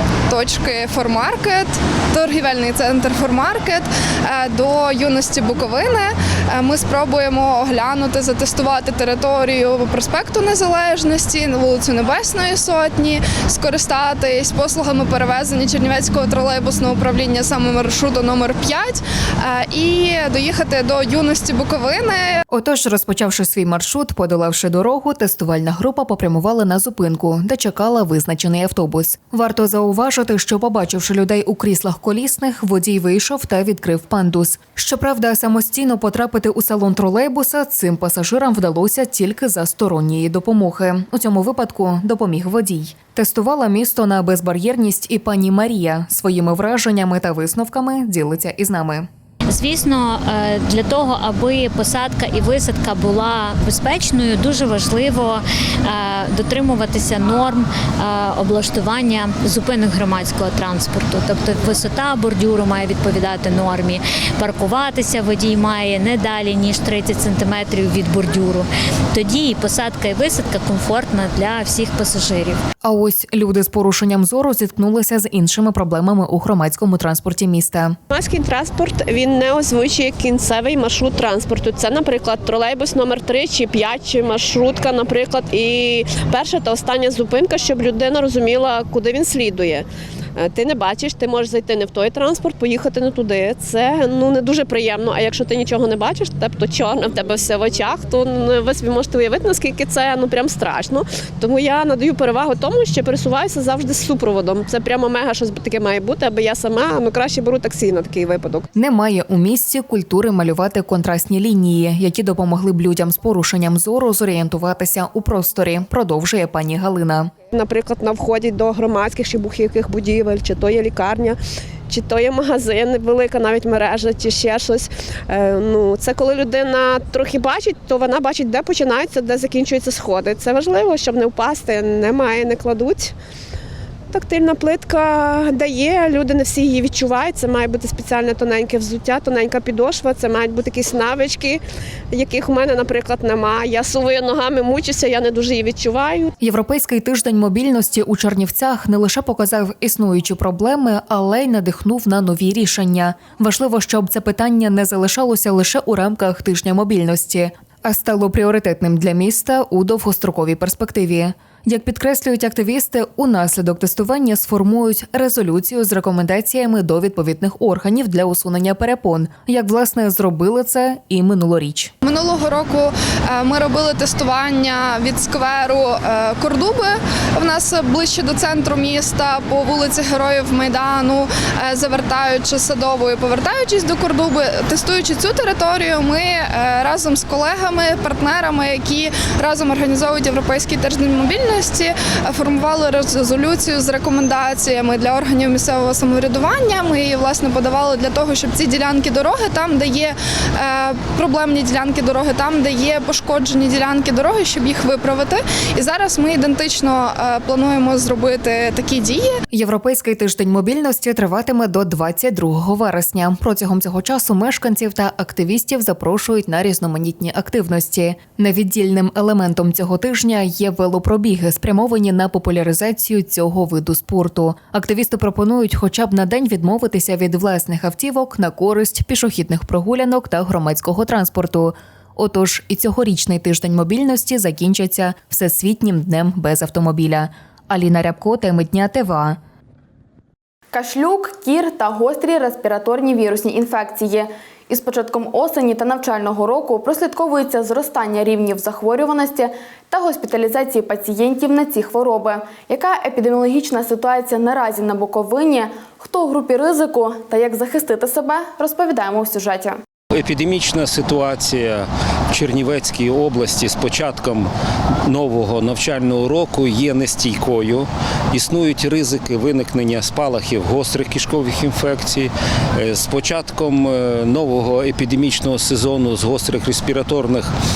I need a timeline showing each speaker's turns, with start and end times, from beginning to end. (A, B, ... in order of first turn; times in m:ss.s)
0:00.3-0:22.4 A
0:22.5-0:49.1 B
0:49.5-1:12.6 C
1:12.8-1:18.0 B
1:18.1-1:29.8 D
1:30.4-1:48.7 D
1:48.7-1:57.3 B
1:57.5-2:01.4 D
2:01.9-2:13.1 D
2:14.1-2:26.3 D
2:26.4-2:51.9 B
2:52.0-3:29.3 A
3:29.5-3:59.4 B
4:00.7-4:19.7 E
4:20.1-4:24.5 F
4:25.0-4:37.5 F